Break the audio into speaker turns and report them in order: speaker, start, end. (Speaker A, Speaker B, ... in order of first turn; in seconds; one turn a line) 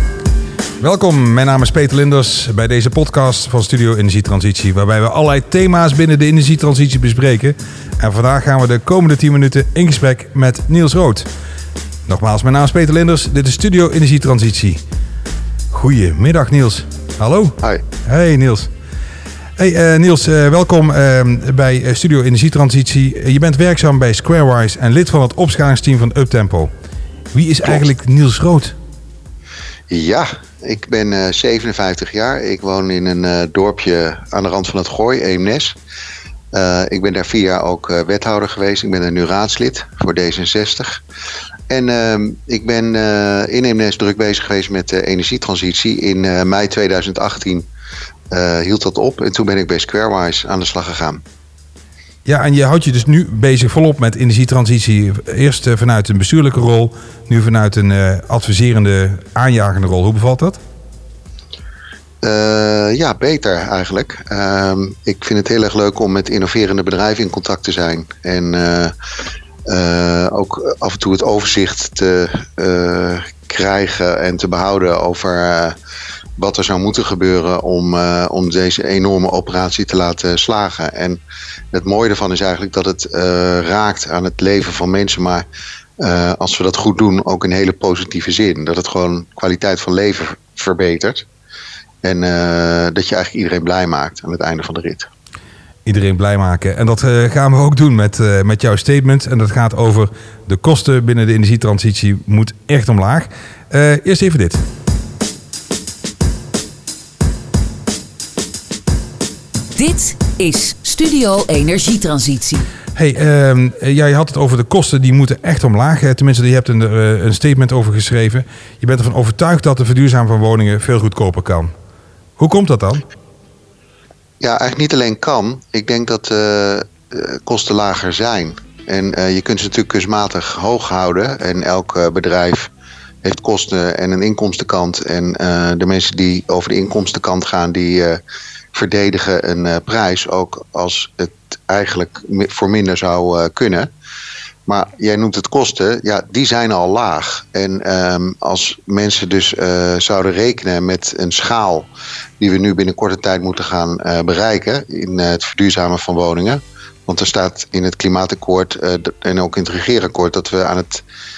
Speaker A: 0.8-11.3
Speaker A: 12.1-14.8
Speaker A: 15.7-18.7
Speaker A: 19.6-26.7
Speaker A: 27.3-28.8
Speaker B: 29.9-35.8
Speaker B: 36.5-41.0
Speaker B: 41.7-47.7
Speaker B: 48.3-51.2
Speaker A: 52.3-60.6
Speaker B: 62.2-68.9
Speaker B: 69.7-75.8
Speaker B: 76.4-81.2
Speaker B: 81.7-85.5
Speaker B: 86.0-91.3
Speaker B: 92.0-95.1
Speaker A: 95.8-104.6
Speaker C: 109.8-112.7
Speaker A: 113.0-121.7
Speaker A: 122.4-123.0
Speaker B: 124.4-132.7
Speaker B: 133.2-138.2
Speaker B: 138.7-143.9
Speaker B: 144.7-161.0